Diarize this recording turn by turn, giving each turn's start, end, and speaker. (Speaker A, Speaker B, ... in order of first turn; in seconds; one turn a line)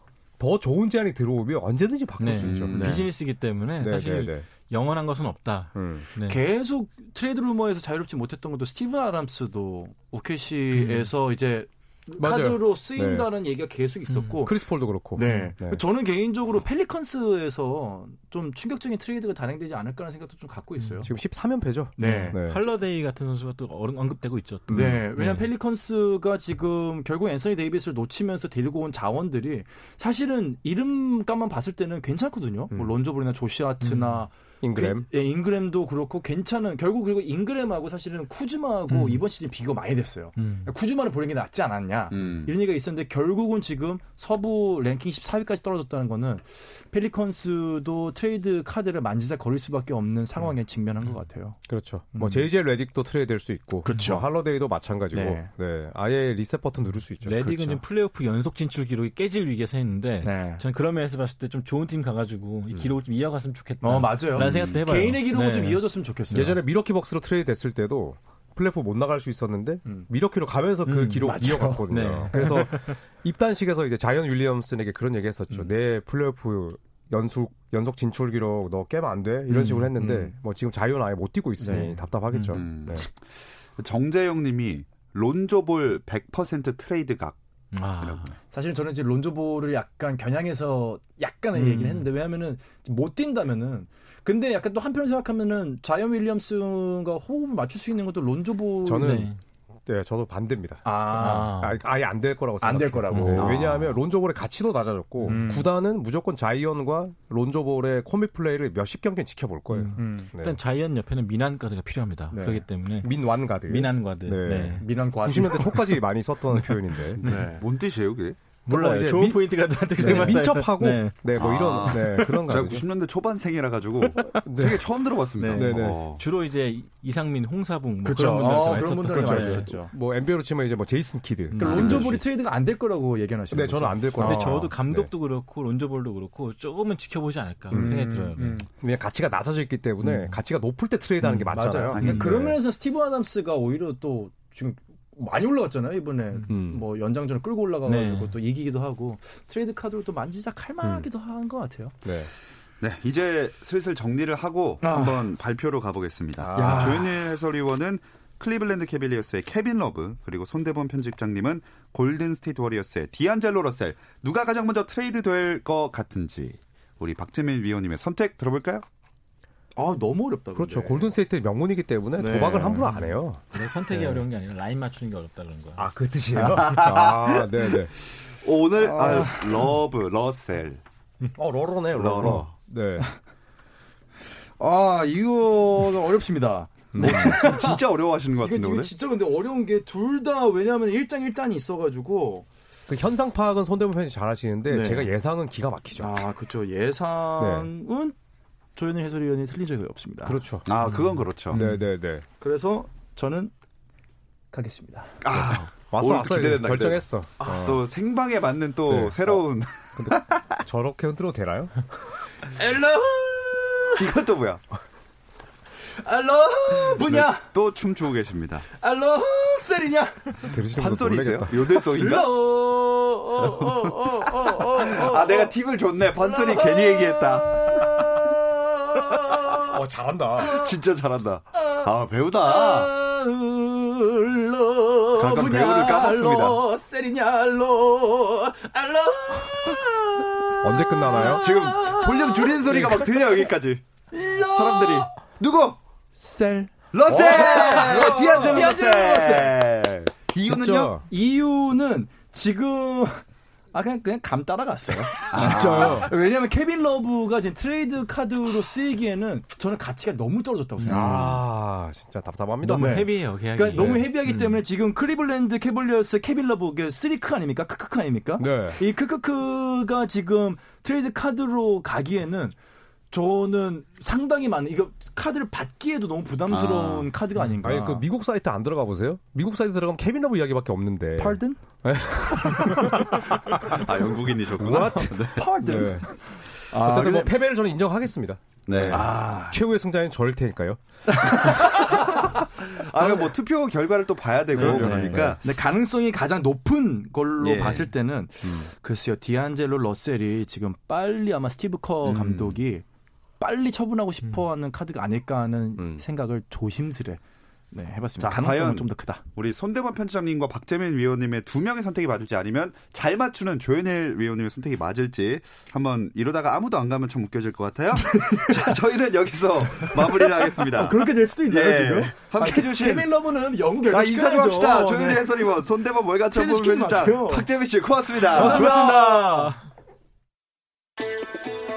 Speaker A: 0.4-3.1
Speaker B: 2.2-6.4
Speaker C: 2.4-2.9
Speaker D: 2.7-3.1
Speaker A: 3.8-4.5
Speaker A: 5.7-6.1
Speaker D: 6.3-14.6
Speaker B: 10.7-11.1
Speaker A: 12.2-13.3
Speaker B: 14.1-14.4
Speaker A: 14.4-15.8
Speaker D: 15.1-21.1
Speaker B: 15.2-15.5
Speaker B: 20.8-21.0
Speaker A: 21.0-22.6
Speaker D: 22.0-22.4
Speaker B: 22.0-25.5
Speaker A: 24.7-25.0
Speaker D: 24.7-51.6
Speaker A: 32.7-33.0
Speaker B: 33.8-34.2
Speaker A: 34.6-35.0
Speaker B: 38.9-39.2
Speaker B: 40.4-40.7
Speaker C: 42.1-42.5
Speaker A: 51.7-57.8
Speaker D: 52.1-52.5
Speaker D: 53.8-54.3
Speaker B: 53.9-54.1
Speaker D: 55.1-55.5
Speaker B: 57.2-66.5
Speaker D: 60.2-60.6
Speaker D: 63.8-66.5
Speaker A: 66.3-83.0
Speaker B: 70.8-72.9
Speaker D: 71.2-72.6
Speaker B: 79.5-79.8
Speaker D: 79.5-80.3
Speaker D: 81.6-81.9
Speaker B: 81.7-82.6
Speaker C: 82.5-87.4
Speaker B: 87.7-88.3
Speaker C: 88.0-88.3
Speaker D: 88.5-99.2
Speaker B: 91.5-92.1
Speaker A: 98.8-99.3
Speaker B: 99.0-99.4
Speaker A: 99.8-110.6
Speaker D: 100.8-101.5
Speaker B: 101.1-101.8
Speaker D: 102.6-103.9
Speaker B: 103.1-103.5
Speaker D: 105.2-105.7
Speaker B: 109.7-114.8
Speaker D: 110.0-110.3
Speaker D: 112.3-112.6
Speaker A: 113.0-117.2
Speaker D: 114.8-115.9
Speaker B: 116.5-117.5
Speaker D: 117.2-117.6
Speaker C: 117.3-118.4
Speaker B: 118.7-121.2
Speaker A: 118.7-119.4
Speaker A: 120.0-122.8
Speaker D: 120.0-120.4
Speaker C: 121.3-126.2
Speaker B: 124.0-124.4
Speaker A: 124.4-124.8
Speaker B: 125.4-129.7
Speaker A: 125.5-126.0
Speaker D: 128.0-129.9
Speaker A: 129.1-132.2
Speaker B: 131.5-132.0
Speaker D: 131.6-134.7
Speaker C: 131.6-132.1
Speaker A: 133.5-135.1
Speaker B: 134.2-138.6
Speaker A: 137.7-138.1
Speaker D: 137.7-138.7
Speaker A: 138.7-142.6
Speaker B: 140.0-140.3
Speaker D: 141.2-151.9
Speaker C: 141.9-142.5
Speaker B: 141.9-142.4
Speaker A: 146.5-146.8
Speaker B: 147.8-148.3
Speaker A: 150.8-151.1
Speaker A: 152.0-152.3
Speaker C: 152.8-168.8
Speaker D: 154.8-155.2
Speaker A: 156.4-157.0
Speaker D: 156.6-157.2
Speaker D: 169.7-171.1
Speaker A: 170.5-174.2
Speaker D: 172.2-173.0
Speaker B: 173.5-175.9
Speaker A: 175.8-177.9
Speaker C: 176.4-180.8
Speaker D: 178.8-179.7
Speaker A: 181.3-183.1
Speaker C: 181.9-182.5
Speaker D: 184.6-187.8
Speaker A: 186.9-187.4
Speaker C: 187.0-188.9
Speaker D: 188.4-192.5
Speaker A: 192.9-196.2
Speaker D: 194.7-195.1
Speaker D: 196.0-198.2
Speaker A: 197.4-197.7
Speaker D: 198.8-200.4
Speaker A: 200.2-200.7
Speaker C: 200.7-201.6
Speaker B: 200.8-201.7
Speaker A: 201.5-202.2
Speaker D: 202.4-203.5
Speaker D: 204.5-205.2
Speaker C: 205.2-210.6
Speaker A: 205.3-207.8
Speaker D: 207.4-207.8
Speaker A: 208.9-209.4
Speaker A: 209.9-211.8
Speaker D: 212.4-214.0
Speaker C: 213.9-214.6
Speaker D: 215.9-217.5
Speaker C: 216.9-218.7
Speaker D: 218.7-220.6
Speaker A: 220.4-221.6
Speaker C: 220.8-222.3
Speaker D: 221.7-225.5
Speaker C: 223.4-228.2
Speaker D: 226.2-229.8
Speaker A: 229.6-230.6
Speaker D: 230.3-230.7
Speaker C: 230.4-232.9
Speaker D: 232.4-243.5
Speaker C: 235.2-236.6
Speaker A: 240.6-241.5
Speaker C: 241.3-243.8
Speaker D: 244.1-245.1
Speaker C: 244.4-245.8
Speaker D: 246.2-249.6
Speaker C: 246.9-250.9
Speaker A: 247.9-248.7
Speaker A: 250.4-251.1
Speaker D: 251.0-261.4
Speaker C: 255.3-256.1
Speaker A: 255.3-256.1
Speaker B: 260.8-261.0
Speaker A: 260.9-263.1
Speaker B: 262.6-264.6
Speaker D: 262.7-272.6
Speaker A: 263.7-264.1
Speaker A: 268.4-268.8
Speaker D: 273.1-278.0
Speaker C: 276.5-277.1
Speaker A: 277.6-283.8
Speaker D: 281.2-281.6
Speaker D: 282.4-283.0
Speaker C: 283.7-285.5
Speaker A: 284.6-286.1
Speaker D: 284.6-287.3
Speaker A: 286.7-290.8
Speaker C: 288.6-289.1
Speaker D: 288.9-289.6
Speaker D: 291.2-292.4
Speaker C: 291.4-295.4
Speaker D: 293.0-293.3
Speaker D: 294.6-302.8
Speaker A: 294.6-295.4
Speaker C: 297.4-297.9
Speaker A: 298.4-298.7
Speaker C: 302.0-302.6
Speaker D: 303.4-307.2
Speaker A: 305.8-306.0
Speaker D: 307.7-309.2
Speaker C: 308.2-323.1
Speaker D: 318.0-318.7
Speaker D: 319.7-325.4
Speaker C: 323.9-329.1
Speaker D: 326.3-327.4
Speaker D: 328.2-329.6
Speaker B: 328.4-329.5